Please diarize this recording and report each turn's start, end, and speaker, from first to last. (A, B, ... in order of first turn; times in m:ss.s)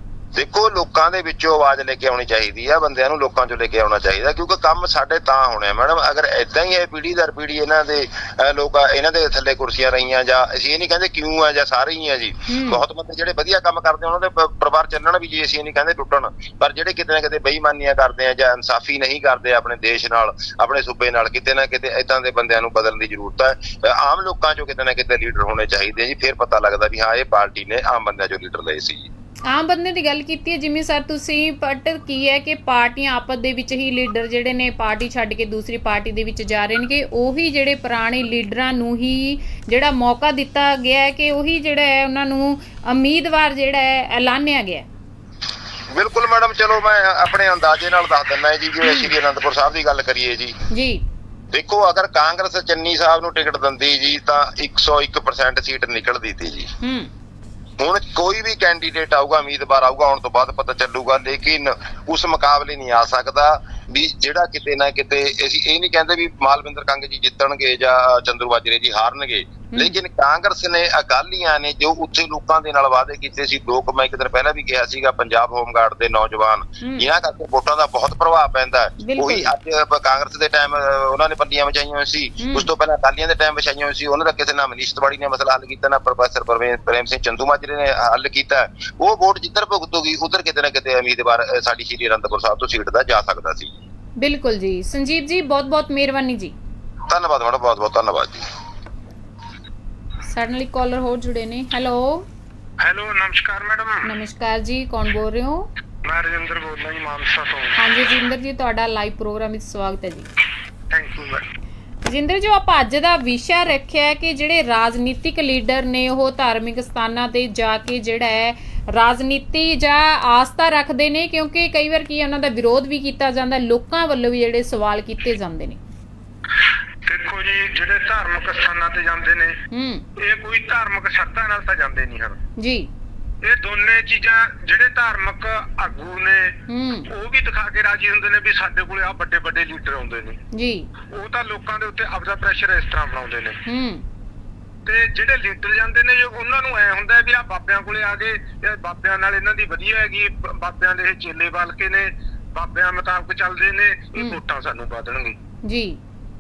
0:00.4-0:29.1 A
0:12.5-0:12.8 B
0:29.5-0:44.8 B
0:45.9-0:50.6 A
0:50.7-0:51.0 B
0:51.5-0:56.7 A
0:56.8-0:57.1 B
0:57.8-1:33.7 A
1:09.7-1:10.0 B
1:16.8-1:17.1 B
1:19.0-1:19.5 B
1:22.4-1:22.7 B
1:34.2-1:36.5 B
1:37.1-1:38.4 A
1:40.2-1:42.2 B
1:42.8-1:44.1 C
1:44.0-1:45.7 B
1:46.0-1:47.8 C
1:47.8-1:50.3 B
1:50.9-1:51.5 C
1:52.0-2:05.8 B
2:07.0-2:09.6 C
2:09.7-2:10.1 B
2:10.2-2:12.4 C
2:12.6-2:12.9 B
2:13.4-2:20.4 C
2:16.7-2:17.1 B
2:20.5-2:20.9 B
2:21.1-2:23.6 C
2:23.7-2:24.0 B
2:24.9-2:35.4 C
2:35.6-2:36.0 B